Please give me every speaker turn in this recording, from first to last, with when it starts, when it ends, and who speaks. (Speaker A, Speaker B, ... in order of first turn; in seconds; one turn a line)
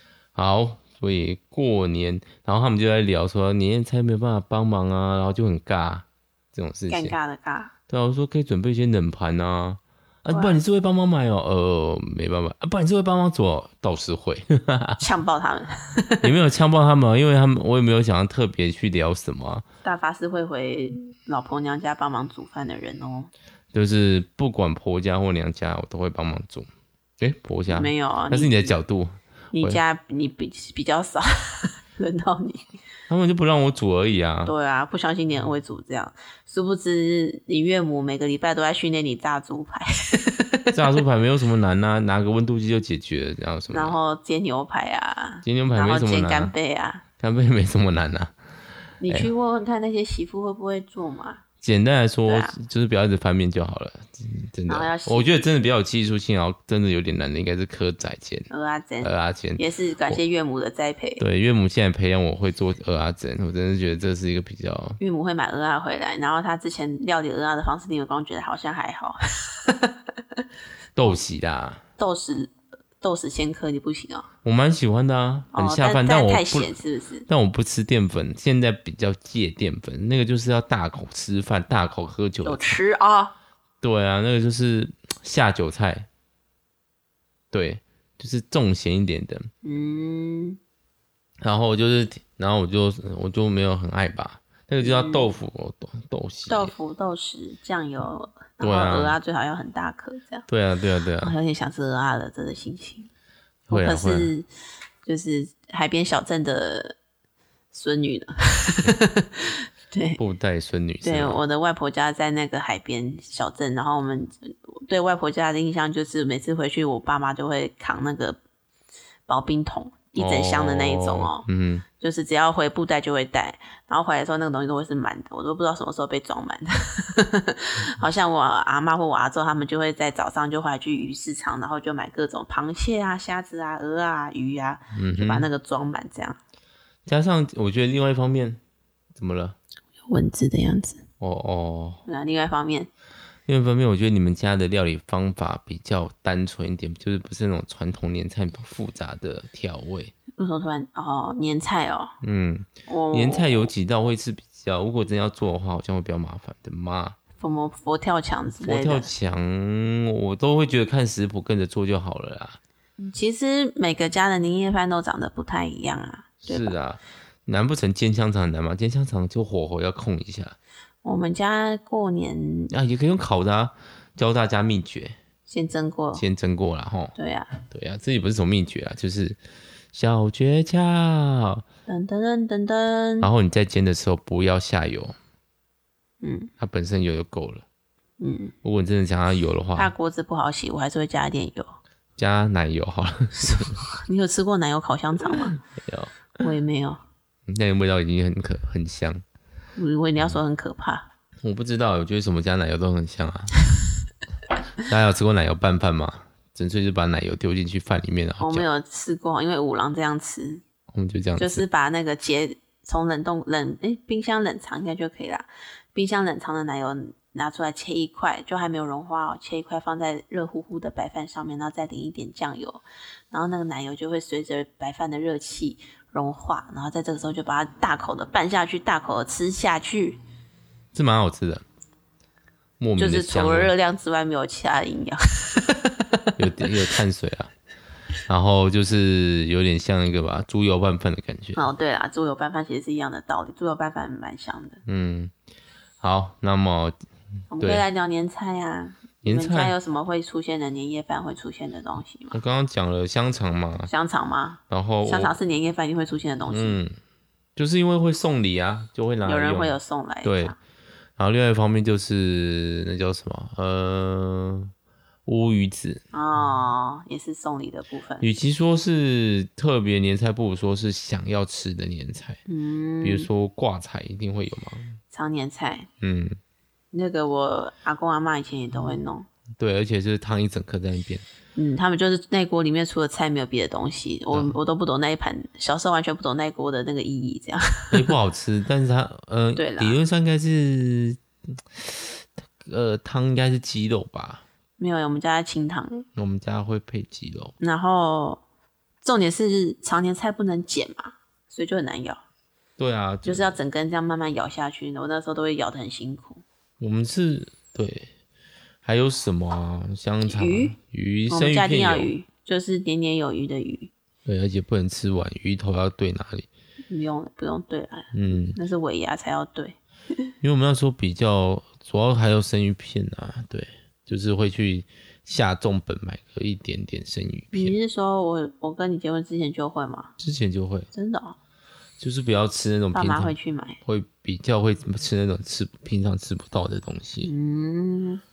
Speaker A: 0.3-7.2
Speaker B: 6.9-7.7
Speaker A: 7.9-15.0
Speaker B: 10.3-10.6
Speaker B: 15.0-16.3
Speaker A: 16.2-19.6
Speaker B: 19.8-23.3
Speaker A: 23.7-26.7
Speaker A: 27.2-29.8
Speaker B: 27.7-28.7
Speaker B: 29.5-32.7
Speaker A: 33.1-34.5
Speaker B: 34.5-40.8
Speaker A: 40.7-44.0
Speaker B: 43.7-47.0
Speaker A: 45.4-46.5
Speaker A: 47.2-48.3
Speaker B: 49.0-51.4
Speaker A: 51.6-58.5
Speaker B: 52.2-52.5
Speaker B: 54.7-55.3
Speaker B: 58.5-61.2
Speaker A: 59.0-60.2
Speaker A: 61.2-65.0
Speaker B: 65.0-70.4
Speaker A: 71.0-71.8
Speaker B: 72.0-74.3
Speaker A: 74.4-76.7
Speaker B: 75.5-77.2
Speaker A: 77.3-82.8
Speaker B: 82.4-83.3
Speaker A: 83.8-86.1
Speaker A: 87.5-89.5
Speaker B: 89.6-90.6
Speaker A: 91.4-96.7
Speaker B: 94.8-95.3
Speaker B: 96.5-100.5
Speaker A: 98.6-99.2
Speaker A: 100.5-101.3
Speaker B: 101.2-103.1
Speaker A: 103.7-104.3
Speaker B: 103.7-104.5
Speaker B: 105.0-107.0
Speaker B: 107.7-110.2
Speaker A: 110.2-111.4
Speaker B: 111.0-118.4
Speaker B: 119.3-121.5
Speaker A: 120.2-121.8
Speaker B: 122.0-136.4
Speaker A: 134.9-135.5
Speaker A: 137.1-138.6
Speaker A: 139.1-139.6
Speaker B: 140.1-141.0
Speaker A: 141.2-142.0
Speaker B: 142.1-142.9
Speaker A: 143.5-150.1
Speaker B: 150.3-152.1
Speaker A: 152.2-157.2
Speaker B: 152.8-153.7
Speaker B: 157.4-159.1
Speaker A: 158.6-162.6
Speaker B: 163.0-166.7
Speaker A: 166.4-170.6
Speaker B: 171.0-172.7
Speaker A: 172.7-175.2
Speaker B: 175.5-176.2
Speaker A: 176.1-177.2
Speaker B: 177.2-177.6
Speaker A: 177.7-179.4
Speaker A: 179.9-181.6
Speaker B: 181.9-183.3
Speaker A: 183.2-185.2
Speaker B: 186.2-186.5
Speaker A: 186.6-187.6
Speaker B: 188.2-188.5
Speaker A: 188.6-189.9
Speaker B: 189.8-191.8
Speaker A: 192.2-193.8
Speaker B: 193.4-195.6
Speaker A: 195.7-196.3
Speaker B: 196.4-197.0
Speaker A: 197.5-199.2
Speaker B: 199.8-201.1
Speaker A: 201.4-203.5
Speaker A: 204.8-208.7
Speaker B: 208.4-210.6
Speaker A: 210.9-211.6
Speaker B: 211.4-230.2
Speaker A: 230.9-231.6
Speaker A: 232.8-233.7
Speaker B: 233.0-236.3
Speaker A: 236.4-237.5
Speaker A: 238.3-241.6
Speaker B: 241.5-244.8
Speaker A: 244.8-245.3
Speaker A: 246.0-247.0
Speaker B: 247.5-252.4
Speaker A: 247.6-247.8
Speaker A: 249.2-249.7
Speaker A: 252.3-253.9
Speaker B: 253.9-256.8
Speaker A: 254.7-255.3
Speaker A: 256.5-256.9
Speaker A: 257.6-260.5
Speaker B: 259.2-260.6
Speaker A: 261.2-264.7
Speaker A: 265.2-266.0
Speaker B: 266.1-268.3
Speaker A: 268.2-272.4
Speaker B: 272.5-273.3
Speaker A: 273.0-275.0
Speaker B: 275.1-275.9
Speaker A: 276.0-276.4
Speaker B: 276.9-279.3
Speaker A: 279.6-281.2
Speaker B: 281.5-288.1
Speaker A: 287.9-294.4
Speaker B: 289.6-290.0
Speaker B: 294.8-296.1
Speaker A: 296.1-297.5
Speaker B: 297.6-298.4
Speaker B: 299.0-302.2
Speaker A: 302.8-303.6
Speaker B: 303.2-306.4
Speaker A: 306.8-308.1
Speaker A: 308.8-312.1
Speaker B: 310.2-310.8
Speaker B: 311.3-313.9
Speaker A: 314.2-316.5
Speaker B: 316.9-320.3
Speaker A: 318.1-318.6
Speaker A: 320.4-327.8
Speaker B: 327.5-330.1
Speaker A: 330.2-330.9
Speaker B: 330.9-331.4
Speaker A: 332.0-337.3
Speaker B: 332.9-333.8
Speaker B: 337.2-338.2